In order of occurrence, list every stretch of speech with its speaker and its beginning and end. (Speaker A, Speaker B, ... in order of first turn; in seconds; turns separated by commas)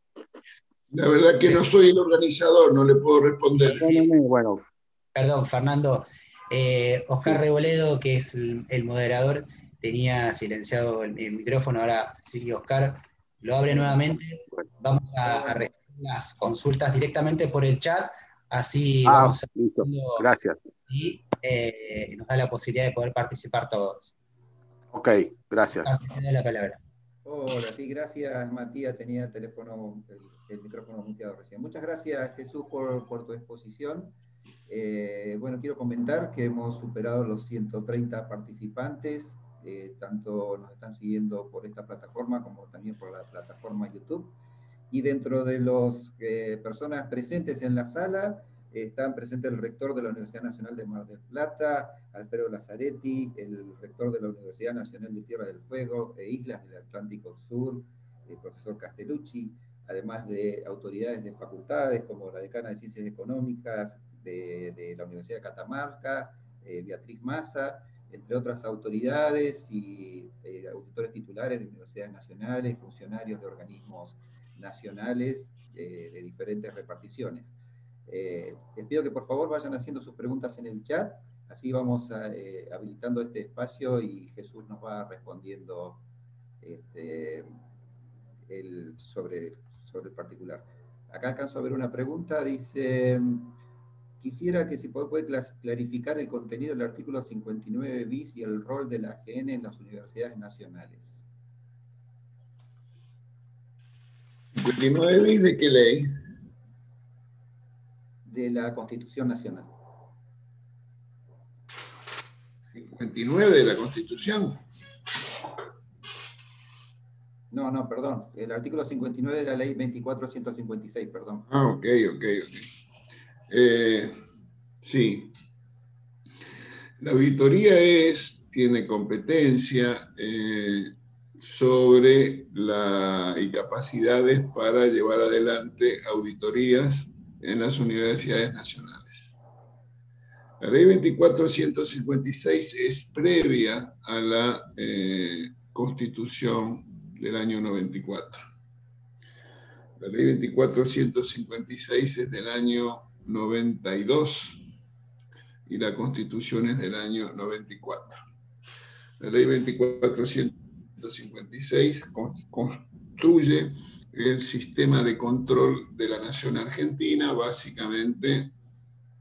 Speaker A: 0.9-4.1, Speaker B: 3.5-4.7, Speaker C: 5.2-20.3, Speaker B: 19.1-20.6, Speaker C: 20.9-24.1, Speaker B: 24.9-25.9, Speaker C: 25.8-26.8, Speaker D: 27.2-34.1, Speaker D: 34.7-44.3, Speaker D: 44.9-77.5, Speaker D: 78.1-86.0, Speaker D: 86.6-87.5, Speaker D: 88.5-93.5, Speaker D: 94.2-101.2, Speaker A: 104.5-106.1, Speaker D: 108.2-109.7, Speaker A: 112.7-114.6, Speaker D: 117.5-121.5, Speaker A: 121.5-122.7, Speaker A: 123.5-124.1, Speaker A: 124.8-125.3, Speaker A: 127.0-139.3, Speaker A: 140.6-148.4, Speaker A: 150.0-154.6, Speaker A: 155.7-158.2, Speaker A: 159.2-168.5